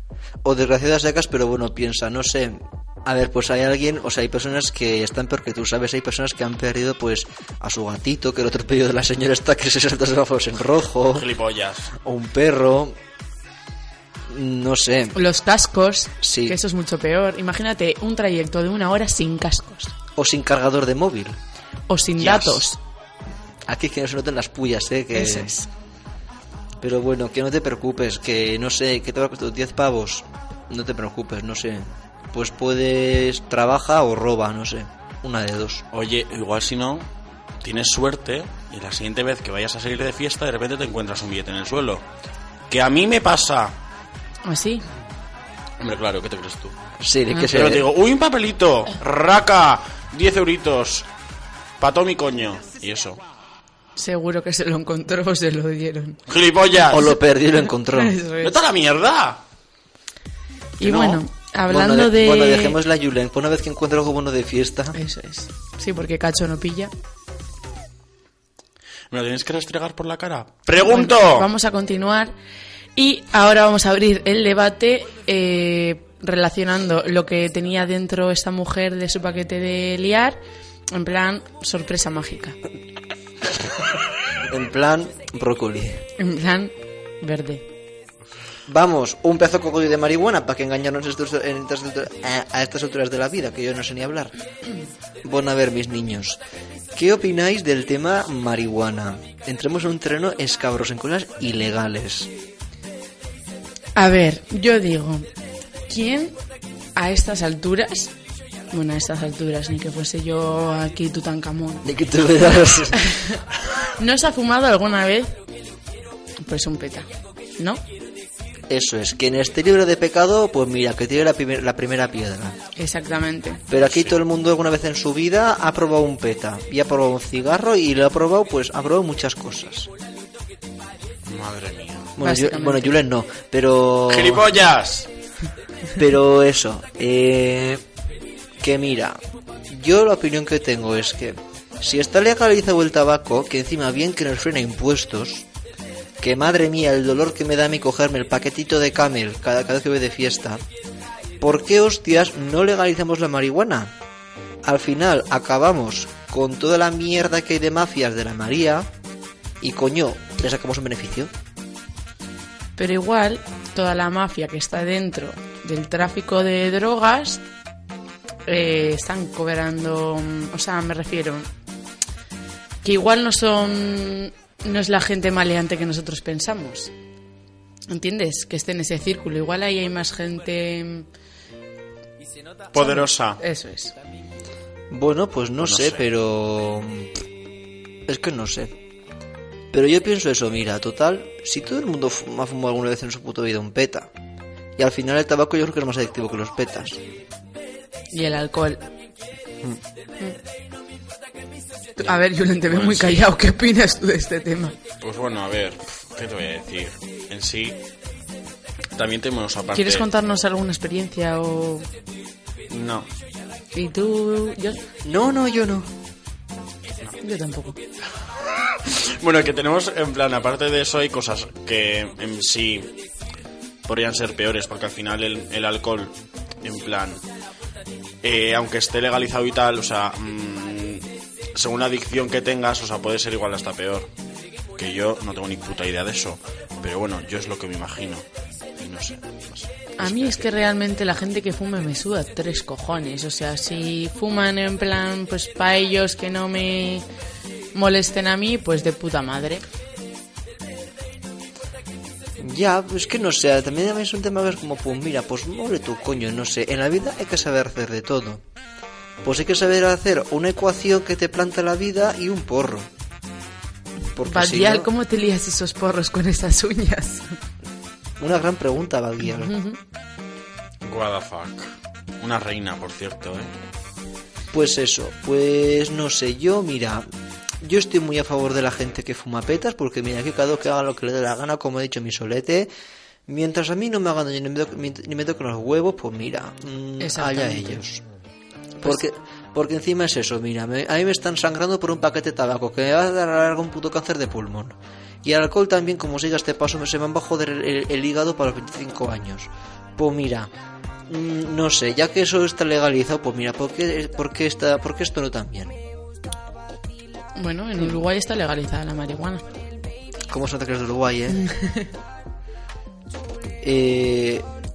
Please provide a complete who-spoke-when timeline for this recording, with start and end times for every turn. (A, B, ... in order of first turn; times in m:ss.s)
0:00.4-0:11.3 A
0:11.1-0:11.9 B
0:11.9-0:13.0 A
0:14.3-0:15.2 A
0:15.1-0:19.9 C
0:16.2-0:16.6 A
0:20.2-0:21.4 A
0:21.9-0:22.8 C
0:22.2-0:22.6 B
0:23.7-0:25.6 A
0:25.1-0:25.7 C
0:26.8-0:35.8 A
0:35.9-0:37.1 B
0:37.6-0:42.0 B
0:42.7-0:43.8 B
0:44.4-0:44.8 C
0:45.8-0:46.8 B
0:47.0-0:47.9 A
0:47.4-0:51.1 B
0:51.8-0:53.2 B
0:54.0-0:56.2 C
0:56.3-0:57.2 B
0:56.9-0:58.2 A
0:57.9-0:58.6 C
0:58.4-0:59.4 B
1:00.8-1:02.8 C
1:00.8-1:01.2 B
1:01.7-1:05.0 A
1:04.9-1:06.9 C
1:09.1-1:11.5 B
1:10.8-1:12.3 C
1:13.0-1:22.6 C
1:24.4-1:26.0 A
1:26.2-1:27.6 C
1:28.7-1:34.3 A
1:35.2-1:36.4 A
1:36.9-1:42.3 A
1:43.9-1:45.3 C
1:45.9-1:46.4 C
1:47.0-1:48.1 C
1:48.7-1:51.8 C
1:51.8-1:53.1 A
1:53.0-1:53.4 C
1:54.0-1:55.4 C
1:56.4-1:57.8 C
1:58.7-2:02.6 A
2:02.8-2:03.6 C
2:03.7-2:09.9 A
2:03.8-2:04.1 B
2:11.2-2:12.1 B
2:12.2-2:14.5 A
2:12.2-2:13.0 C
2:14.1-2:15.1 B
2:16.0-2:17.8 A
2:18.6-2:25.5 A
2:26.2-2:30.6 A
2:31.4-2:33.9 A
2:34.6-2:38.9 A
2:39.6-2:41.3 A
2:42.8-2:47.4 C
2:48.4-2:51.5 C
2:52.8-2:56.9 C
2:57.9-3:01.1 C
3:02.7-3:03.4 B
3:02.7-3:03.9 C
3:04.9-3:07.1 A
3:05.6-3:06.0 B
3:08.0-3:08.8 A
3:09.7-3:14.1 A
3:14.8-3:17.0 A
3:18.1-3:18.8 C
3:22.0-3:24.8 C
3:22.0-3:23.2 B
3:25.0-3:27.8 B
3:28.9-3:30.1 B
3:29.7-3:31.9 C
3:32.7-3:33.1 B
3:33.7-3:34.8 C
3:35.0-3:35.9 A
3:37.2-3:37.8 C
3:38.5-3:43.0 B
3:43.8-3:47.2 B
3:48.2-3:54.1 B
3:54.8-3:58.2 B
3:58.8-4:00.5 B
4:00.0-4:07.0 C
4:07.7-4:09.6 C
4:12.4-4:18.4 A
4:19.2-4:22.9 A
4:24.1-4:24.9 A
4:24.2-4:27.4 C
4:28.2-4:29.5 A
4:29.4-4:29.8 C
4:30.8-4:33.5 B
4:34.5-4:37.1 A
4:37.6-4:42.7 A
4:43.3-4:48.0 A
4:47.0-4:47.8 C
4:48.8-5:00.5 A
5:01.1-5:05.8 A
5:07.3-5:09.4 C
5:10.3-5:11.4 A
5:11.3-5:11.9 C
5:13.6-5:14.5 A